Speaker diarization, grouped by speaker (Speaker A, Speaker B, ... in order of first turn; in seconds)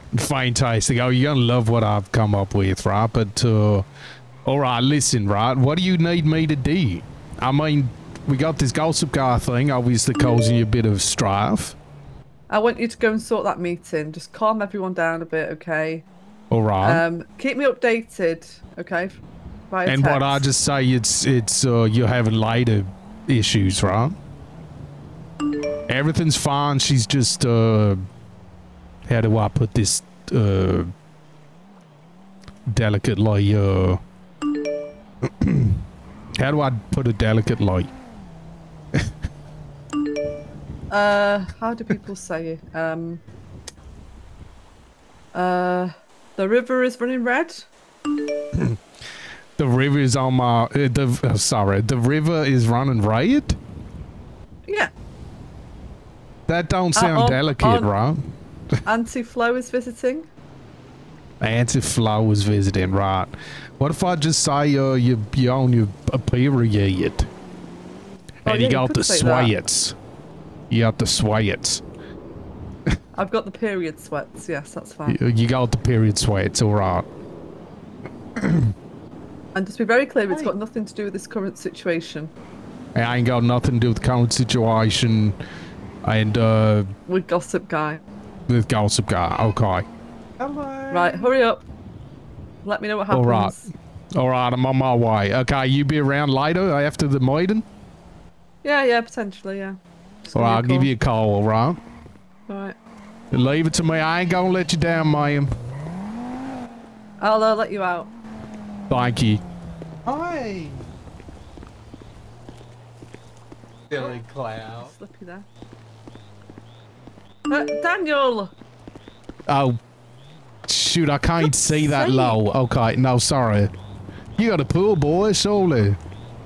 Speaker A: 0.1-3.9, 4.5-11.8, 16.5-17.0, 19.9-24.1, 25.9-28.0, 29.1-30.9, 32.7-34.0, 35.2-35.8, 36.4-37.9, 49.6-53.6, 56.5-58.2, 61.4-67.3, 68.4-69.9, 70.7-71.8, 75.1-77.1, 78.4-78.7, 82.9-85.3, 86.0-86.9, 88.5-89.8, 90.4-91.2, 93.1-93.6, 94.1-97.6, 100.3-101.8, 103.3-105.5, 108.9-109.4, 110.0-110.8, 113.9-114.9, 119.5-119.8, 120.7-123.7, 124.4-126.0
Speaker B: 12.5-16.1, 16.8-20.4, 40.9-43.2, 45.3-47.7, 57.0-57.9, 58.9-60.3, 68.4-69.5, 73.2-75.2, 79.5-82.3, 87.1-88.0, 90.9-91.7, 92.6-93.7, 98.6-100.9, 102.5-102.8, 107.2-108.1, 114.7-115.5, 117.5-118.5, 121.4-122.4